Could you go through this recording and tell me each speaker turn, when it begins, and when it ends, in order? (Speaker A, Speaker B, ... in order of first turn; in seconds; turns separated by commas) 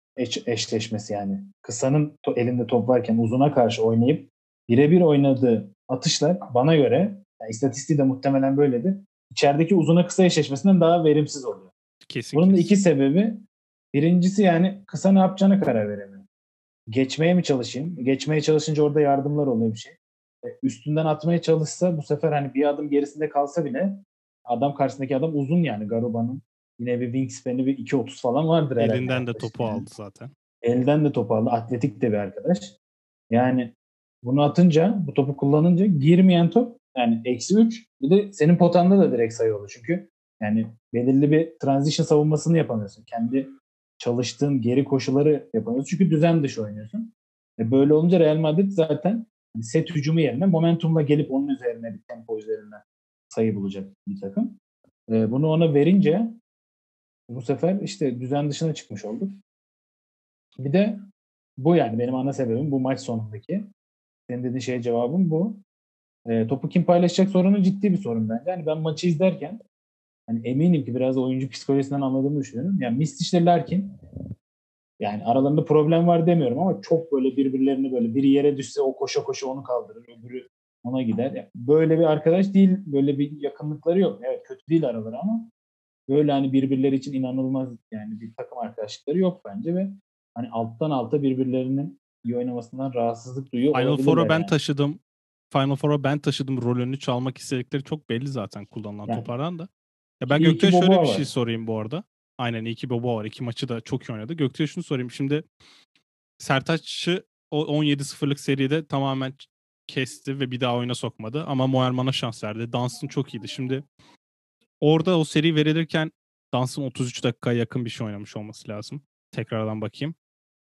Speaker A: 0.2-11.7, Speaker B: 12.0-12.7, Speaker A: 12.3-16.2, Speaker A: 16.9-29.9, Speaker B: 28.8-30.3, Speaker A: 30.6-32.7, Speaker A: 33.3-54.6, Speaker A: 55.1-56.4, Speaker A: 57.3-59.4, Speaker A: 60.6-61.0, Speaker A: 61.6-63.6, Speaker A: 64.3-65.6, Speaker A: 66.3-69.6, Speaker A: 70.3-73.9, Speaker A: 75.0-85.5, Speaker A: 86.1-94.5, Speaker B: 93.7-95.0, Speaker B: 95.5-99.7, Speaker B: 100.2-105.4, Speaker A: 100.3-101.3, Speaker B: 106.4-113.8, Speaker B: 114.8-120.1